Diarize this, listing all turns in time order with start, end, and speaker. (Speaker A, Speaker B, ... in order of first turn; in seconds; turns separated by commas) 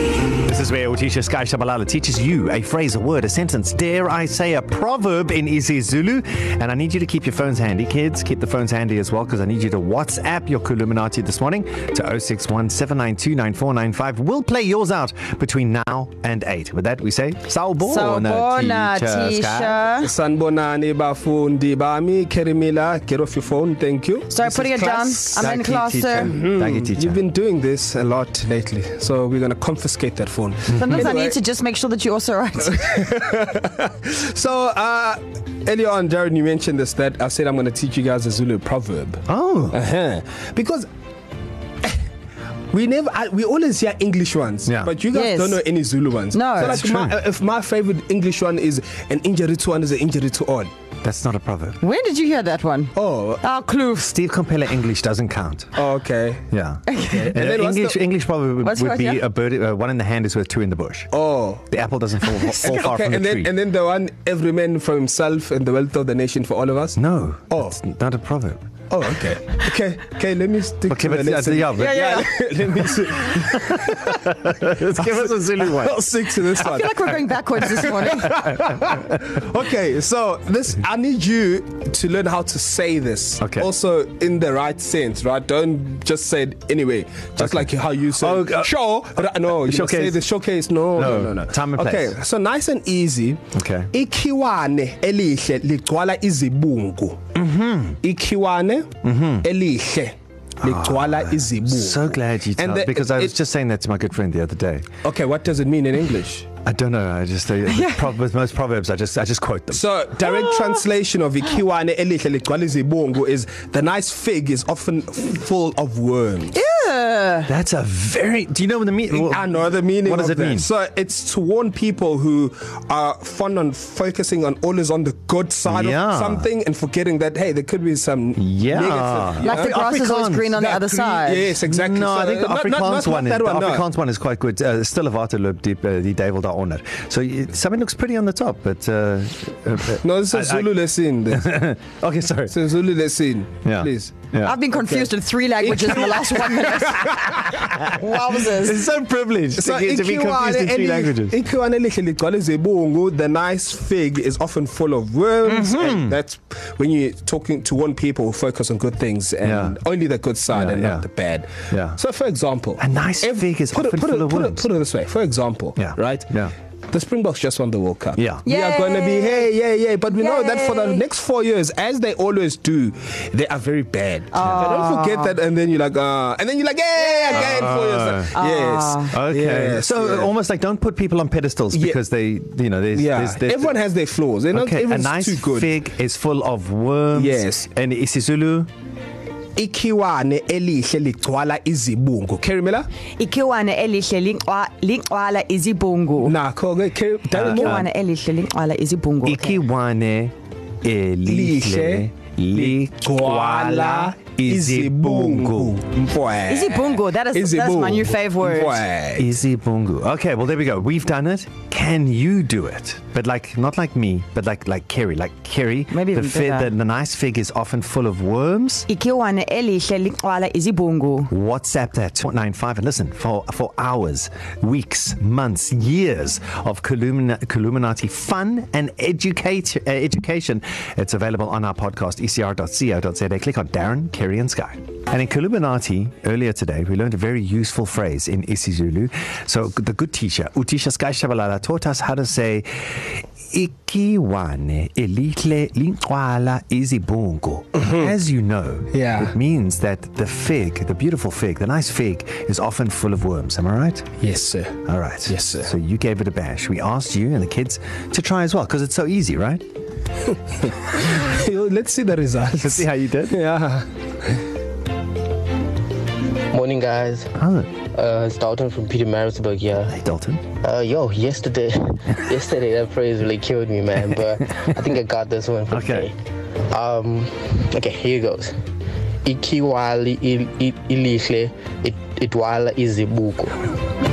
Speaker A: 0.2-19.8, Speaker B: 17.8-20.1, Speaker C: 19.9-25.5, Speaker B: 24.3-26.4, Speaker A: 25.3-27.2, Speaker C: 26.1-31.4, Speaker A: 30.7-31.1, Speaker B: 30.7-33.0, Speaker C: 32.7-40.9, Speaker A: 39.3-39.8, Speaker C: 42.7-50.7, Speaker A: 44.6-44.9, Speaker B: 45.1-45.6, Speaker B: 46.3-46.8, Speaker A: 46.6-47.2, Speaker A: 51.0-51.8, Speaker B: 51.8-54.1, Speaker C: 52.9-53.4, Speaker A: 54.0-55.8, Speaker C: 55.7-56.5, Speaker A: 56.5-61.1, Speaker B: 56.9-57.3, Speaker C: 57.1-58.0, Speaker B: 58.6-59.2, Speaker C: 61.1-61.6, Speaker A: 61.6-63.5, Speaker C: 62.6-67.8, Speaker A: 66.9-68.6, Speaker C: 68.9-74.2, Speaker A: 70.9-72.1, Speaker B: 71.8-72.3, Speaker A: 73.5-76.6, Speaker C: 75.0-97.2, Speaker B: 76.6-78.5, Speaker A: 83.4-83.7, Speaker A: 87.4-90.3, Speaker A: 90.9-92.2, Speaker A: 93.5-93.9, Speaker A: 97.3-98.0, Speaker C: 98.0-98.9, Speaker A: 99.0-99.5, Speaker C: 99.4-103.3, Speaker A: 100.6-104.8, Speaker C: 105.0-106.5, Speaker A: 106.6-110.0, Speaker B: 107.7-108.0, Speaker C: 109.7-116.6, Speaker B: 116.5-117.5, Speaker A: 117.5-120.7, Speaker C: 119.1-129.8, Speaker A: 125.7-126.5, Speaker A: 128.4-130.6, Speaker B: 129.4-131.5, Speaker C: 130.5-133.8, Speaker A: 131.6-140.8, Speaker C: 140.0-141.7, Speaker A: 141.3-142.6, Speaker C: 142.5-147.9, Speaker A: 143.6-144.6, Speaker B: 144.4-148.9, Speaker A: 147.8-151.4, Speaker C: 149.6-166.3, Speaker A: 155.4-156.2, Speaker A: 159.4-159.8, Speaker A: 160.5-161.1, Speaker A: 161.7-162.0, Speaker A: 162.8-164.7, Speaker A: 165.8-166.5, Speaker C: 166.9-180.3, Speaker A: 168.2-168.4, Speaker B: 168.4-169.5, Speaker B: 170.1-171.0, Speaker B: 174.3-175.3, Speaker B: 176.9-177.6, Speaker A: 177.3-178.3, Speaker B: 178.3-179.2, Speaker A: 179.1-183.8, Speaker C: 181.7-182.0, Speaker C: 182.9-185.8, Speaker A: 184.5-188.7, Speaker C: 187.1-187.7, Speaker C: 189.6-192.9, Speaker B: 193.2-196.3, Speaker C: 196.2-197.9, Speaker A: 197.3-197.9, Speaker B: 197.4-199.6, Speaker A: 199.2-205.8, Speaker C: 201.2-209.4, Speaker B: 206.4-208.8, Speaker A: 209.2-218.9, Speaker B: 215.9-216.7, Speaker B: 218.9-221.3, Speaker A: 221.3-254.1, Speaker C: 247.8-248.1, Speaker C: 248.9-249.3, Speaker C: 254.2-255.7, Speaker A: 254.8-259.6, Speaker C: 260.9-263.9, Speaker A: 262.6-263.4, Speaker D: 266.5-267.3, Speaker A: 267.4-267.7, Speaker D: 267.9-269.9, Speaker A: 269.9-270.4, Speaker D: 270.6-276.1, Speaker A: 275.7-276.1, Speaker D: 276.7-278.5, Speaker D: 279.2-283.7